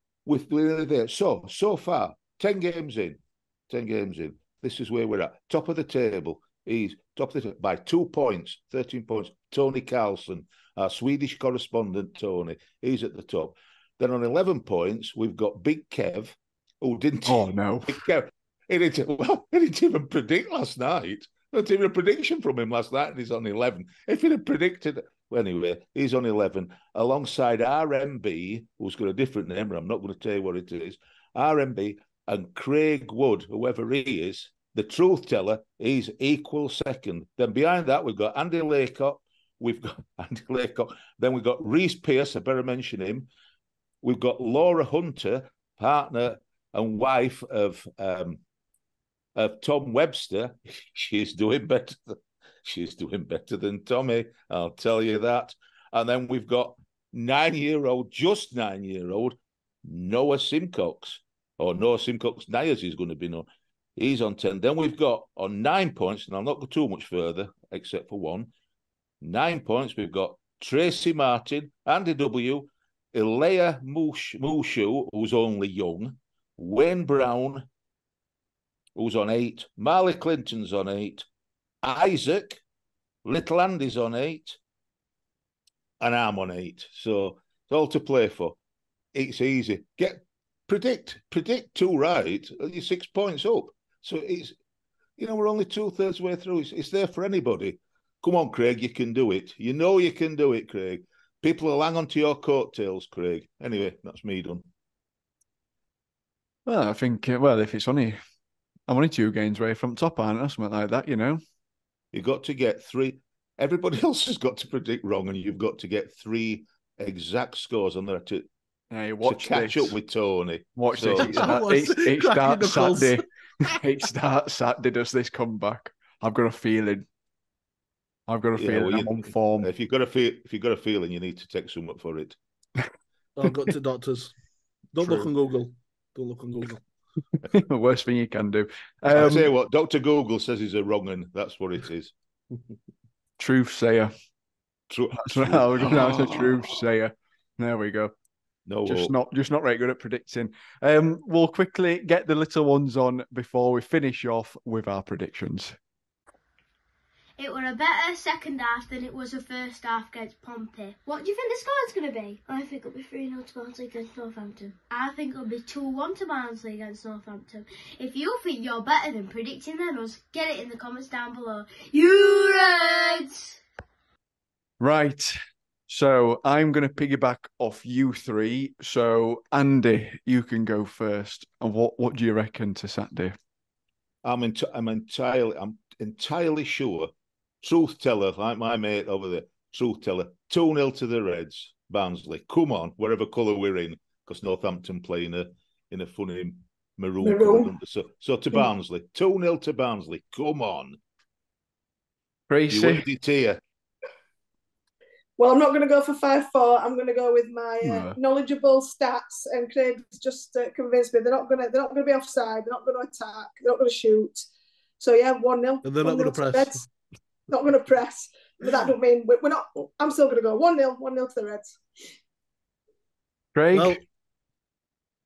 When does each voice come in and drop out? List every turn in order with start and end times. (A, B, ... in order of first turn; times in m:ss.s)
0:00.2-0:43.3 A
0:17.2-0:18.0 B
0:44.0-0:48.4 A
0:49.4-1:03.4 A
1:04.0-1:08.5 A
1:09.2-1:17.7 A
1:19.0-1:21.3 A
1:21.8-1:22.6 A
1:23.2-1:24.6 A
1:26.0-1:28.6 A
1:29.1-1:34.6 A
1:35.2-1:44.6 A
1:46.6-1:48.2 B
1:48.9-1:51.4 B
1:52.1-1:58.4 A
1:58.9-1:59.9 B
1:59.2-2:01.5 A
2:00.8-2:07.0 B
2:01.2-2:03.2 C
2:08.3-2:09.7 B
2:08.6-2:12.4 A
2:13.4-2:14.3 C
2:14.9-2:16.8 C
2:17.4-2:19.5 B
2:19.1-2:22.1 A
2:23.4-2:24.1 B
2:24.9-2:26.6 A
2:25.2-2:28.1 B
2:28.7-2:29.2 A
2:28.8-2:35.7 B
2:37.4-2:53.6 D
2:54.8-2:55.3 B
2:55.9-3:03.3 B
3:04.2-3:07.1 A
3:07.6-3:21.0 A
3:17.2-3:17.7 E
3:22.5-3:23.0 B
3:22.7-3:23.6 A
3:25.4-3:34.4 E
3:27.8-3:28.2 B
3:35.0-3:36.8 E
3:35.8-3:36.8 C
3:37.5-3:41.7 E
3:43.5-3:44.0 B
3:43.7-3:44.0 C